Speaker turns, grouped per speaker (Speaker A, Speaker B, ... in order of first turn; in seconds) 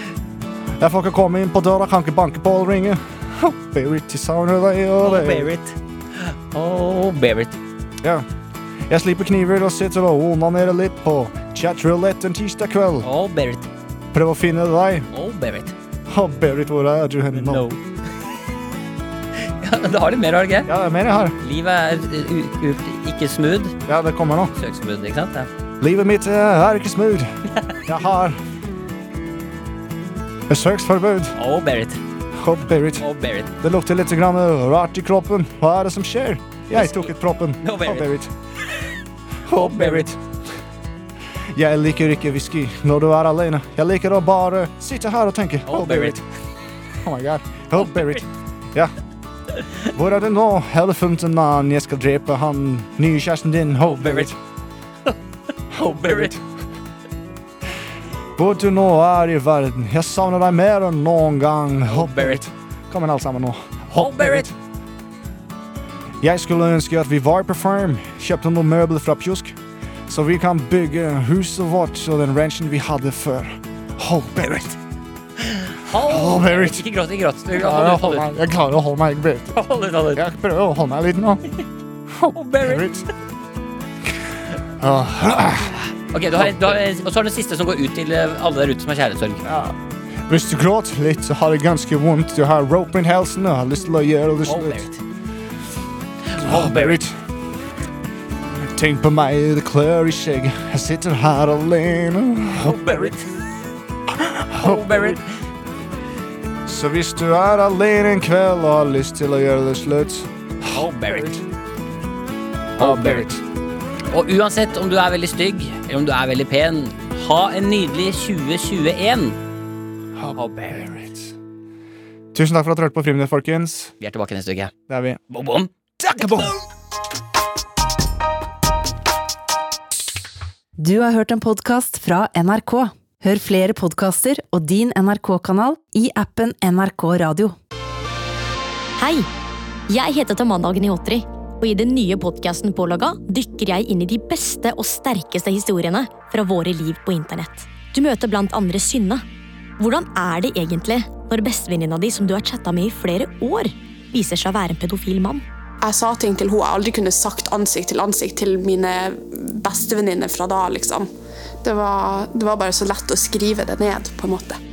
Speaker A: 0.8-5.5, 8.9-13.1, 14.1-15.1, 16.1-17.6, 20.6-21.4, 23.9-24.5, 25.8-27.3, 27.9-28.4, 30.5-31.4, 32.4-33.0, 33.6-38.3, 39.5-40.2, 41.5-46.2, 47.0-48.9, 49.9-54.3, 55.7-56.4, 58.4-64.5, 66.2-69.6, 70.1-74.8, 75.9-76.8, 77.5-79.6, 80.1-81.4, 82.1-83.0, 84.8-85.8, 86.4-86.8, 89.4-89.8, 90.3-94.9, 96.4-97.3, 98.7-103.1, 104.1-105.2, 106.6-111.4, 112.8-113.4, 120.2-121.3, 122.3-123.9, 124.9-125.2, 126.0-126.5
Speaker B: 5.0-7.6, 13.0-13.7, 15.1-15.7, 17.3-17.8, 19.4-20.7, 21.4-23.8, 24.6-25.5, 31.4-32.0, 33.0-33.5, 36.7-38.1, 39.5-40.1, 45.7-46.2, 47.8-48.2, 53.9-54.3, 55.7-56.3, 61.9-62.4, 63.9-64.5, 75.4-78.3, 79.5-80.2, 82.3-83.0, 86.1-89.4, 94.4-95.0, 96.3-97.0, 102.6-103.4, 104.5-105.4, 110.7-111.4, 112.8-113.3, 114.1-119.4, 120.3-120.9, 124.0-124.7, 125.3-126.5
Speaker C: 130.8-137.6
Speaker D: 139.0-139.3, 139.9-149.2, 149.8-155.4
Speaker E: 155.8-161.1, 161.6-164.6